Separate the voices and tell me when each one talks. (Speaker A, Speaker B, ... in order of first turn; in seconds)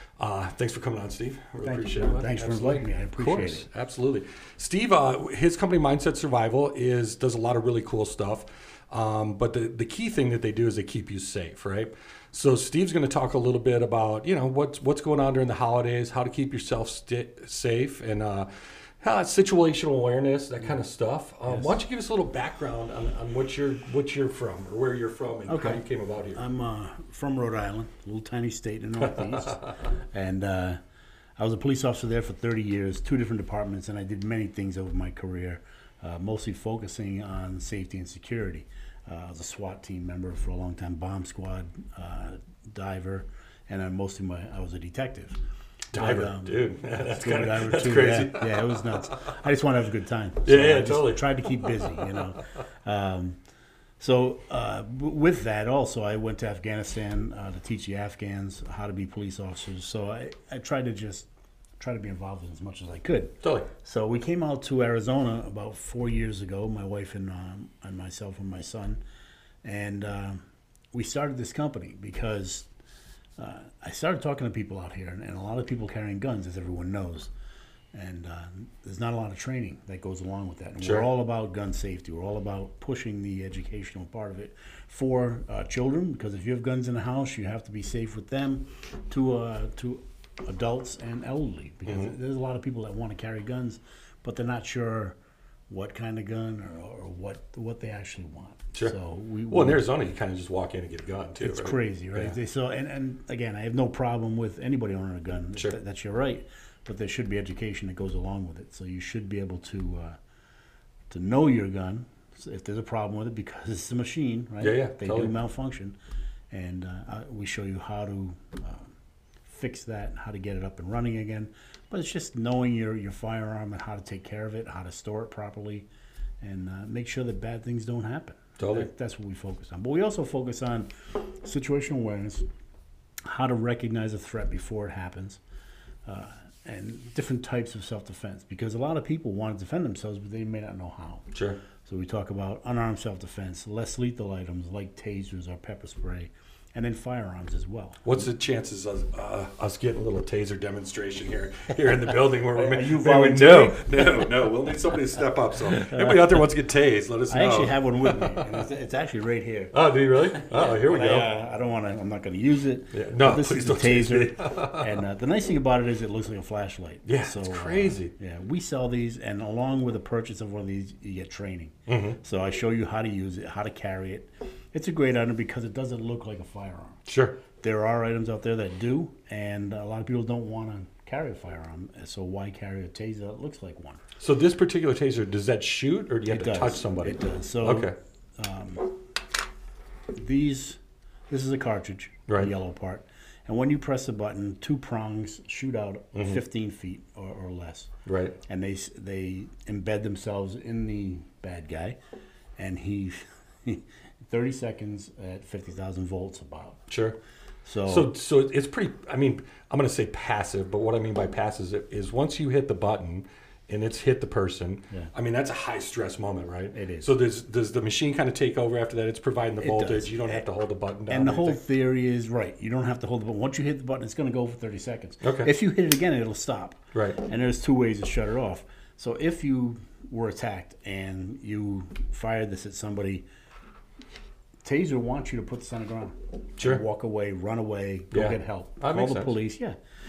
Speaker A: 0.2-18.5, 19.0-26.4, 29.0-29.9, 45.9-49.4, 50.4-52.3, 63.4-63.7, 80.8-81.1, 91.9-92.1, 99.5-102.3, 114.6-115.3, 128.6-128.9, 141.3-141.6, 148.0-158.6, 159.7-161.3, 162.9-165.0, 167.1-168.1, 171.9-172.2, 177.1-177.4, 184.2-187.9, 196.1-196.4, 198.1-198.4, 206.9-207.2, 207.9-221.6, 225.2-225.5, 226.9-227.2, 238.1-239.4
Speaker B: 1.6-3.7, 21.5-21.8, 25.5-25.8, 26.4-30.8, 31.4-45.4, 45.9-53.4, 54.0-61.3, 61.8-69.0, 69.6-70.4, 70.9-72.7, 73.4-77.3, 77.9-95.2, 95.7-99.8, 101.4-110.2, 111.1-116.0, 116.5-118.9, 119.5-125.9, 126.4-132.4, 133.2-135.4, 136.1-141.3, 141.8-148.3, 152.5-156.5, 157.3-184.0, 186.3-189.0, 190.1-197.9, 198.5-202.0, 202.6-206.9, 207.7-208.1, 216.7-217.1, 219.6-220.5, 221.1-233.2, 234.6-239.8